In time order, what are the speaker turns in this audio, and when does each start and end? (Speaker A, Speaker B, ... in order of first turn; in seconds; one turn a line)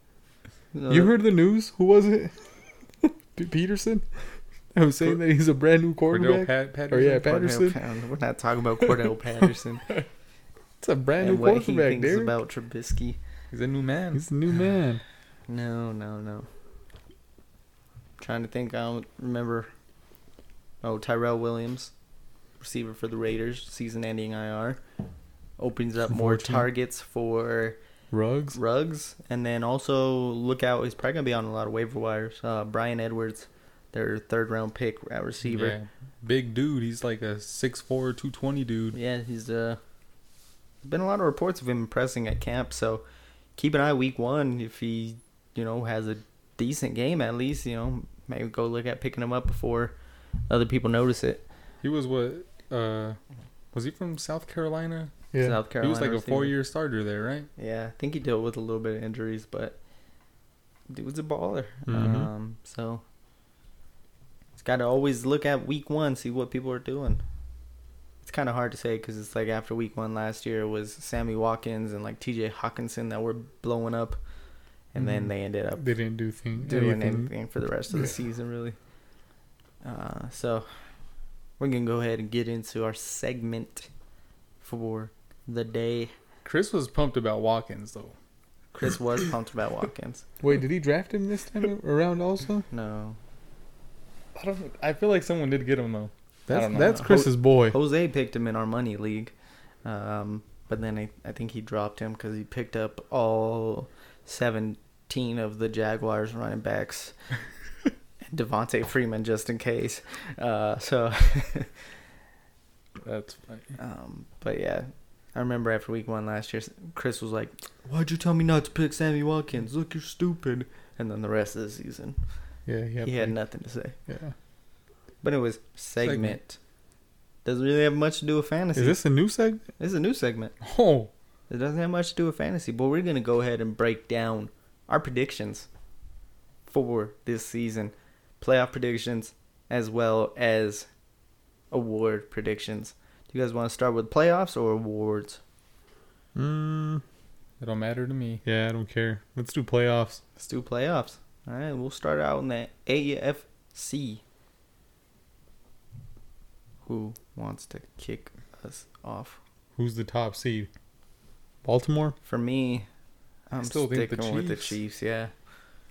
Speaker A: 0.7-1.1
Speaker B: 0.9-2.5
Speaker B: 3.0-4.1
Speaker B: 4.7-7.8
Speaker C: 6.1-7.3
Speaker A: 7.2-9.9
Speaker B: 10.8-12.3
Speaker A: 11.2-13.2
Speaker C: 13.5-14.2
Speaker B: 14.1-15.0
Speaker A: 15.5-16.5
Speaker A: 18.2-19.7
Speaker A: 20.8-21.9
Speaker A: 22.6-24.8
Speaker A: 25.6-27.8
Speaker B: 26.1-26.7
Speaker B: 28.1-28.6
Speaker A: 28.5-35.8
Speaker C: 35.4-39.0
Speaker A: 38.9-39.8
Speaker A: 40.8-43.0
Speaker A: 43.5-50.0
Speaker A: 50.5-51.4
Speaker C: 51.8-53.2
Speaker C: 53.7-55.1
Speaker B: 55.3-55.6
Speaker A: 55.4-56.5
Speaker C: 55.8-57.5
Speaker A: 57.6-59.8
Speaker A: 60.9-63.0
Speaker B: 61.9-62.3
Speaker A: 64.6-67.2
Speaker A: 68.2-74.2
Speaker A: 74.9-75.9
Speaker B: 75.0-77.3
Speaker A: 76.6-78.8
Speaker A: 79.8-80.7
Speaker A: 81.6-83.9
Speaker A: 84.6-86.1
Speaker C: 86.4-88.1
Speaker A: 88.7-90.2
Speaker B: 90.4-92.7
Speaker A: 92.7-93.2
Speaker C: 94.3-97.1
Speaker B: 96.5-97.8
Speaker A: 96.7-99.3
Speaker A: 99.8-107.2
Speaker A: 108.3-111.8
Speaker C: 113.0-113.8
Speaker A: 113.8-122.2
Speaker B: 122.7-123.4
Speaker A: 123.0-124.0
Speaker B: 124.1-124.3
Speaker A: 125.2-126.6
Speaker C: 126.0-126.4
Speaker A: 127.4-129.0
Speaker B: 128.7-129.7
Speaker A: 129.8-130.5
Speaker C: 130.6-131.1
Speaker A: 131.5-135.7
Speaker A: 136.7-140.9
Speaker A: 141.7-145.4
Speaker B: 146.3-147.0
Speaker C: 147.6-148.4
Speaker B: 148.4-150.2
Speaker A: 150.4-154.2
Speaker A: 156.8-159.4
Speaker B: 159.8-160.7
Speaker B: 161.6-162.2
Speaker A: 162.2-162.9
Speaker A: 163.5-165.3
Speaker C: 163.6-164.8